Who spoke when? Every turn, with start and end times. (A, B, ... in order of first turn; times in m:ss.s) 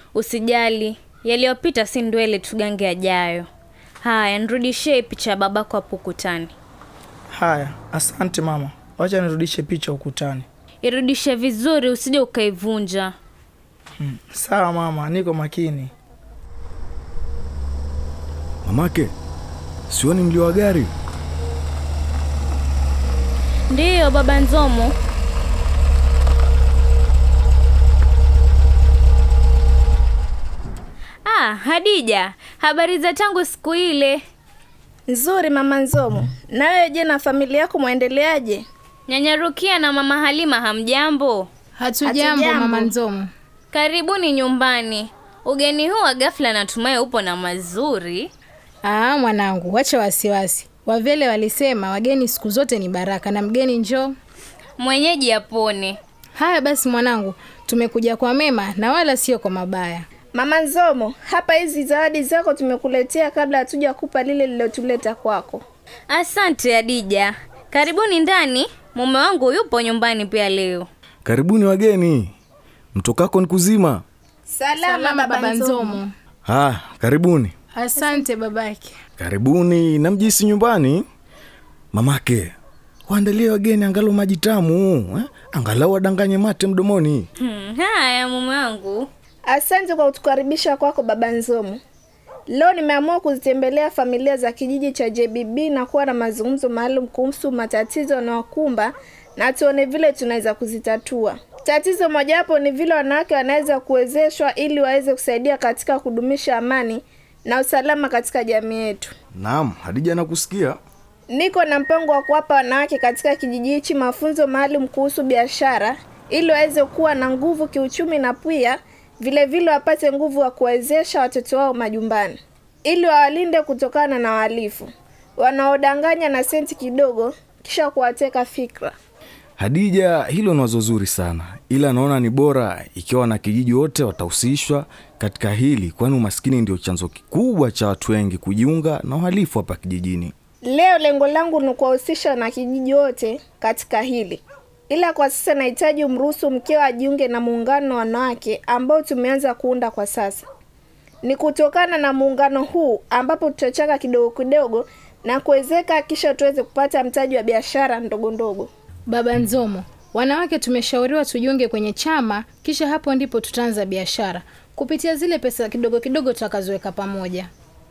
0:00.2-0:03.5 A
0:04.0-0:06.5 A
0:07.3-0:10.5 B
0:10.8-0:13.1 A
0:14.0-0:15.9 B
0:18.6-0:19.1 C
0:19.9-0:20.9 C
0:23.7-0:24.9 A
0:31.2-0:34.2 A
0:35.1-0:38.6 D
0:39.1-0:41.5 A
0:41.8-0:43.3 E
0:42.0-0:42.9 D
0:43.7-0:48.3 A
0:48.8-0:54.2 E
0:54.8-0:56.0 A
0:56.3-1:00.1 E
1:00.3-1:05.6 D
1:06.1-1:10.9 A
1:11.2-1:12.3 C
1:12.9-1:14.0 C
1:14.5-1:16.0 D
1:14.8-1:16.1 E
1:16.5-1:17.5 C
1:17.7-1:18.9 E
1:19.2-1:21.0 C
1:21.9-1:22.5 C
1:23.1-1:27.3 C
1:27.4-1:29.1 A
1:29.4-1:31.8 D
1:32.5-1:49.1 D
1:49.4-1:50.8 C
1:51.3-2:08.9 D
2:09.6-2:20.3 C
2:20.6-2:30.4 D
2:31.2-2:38.7 D
2:39.1-2:47.5 E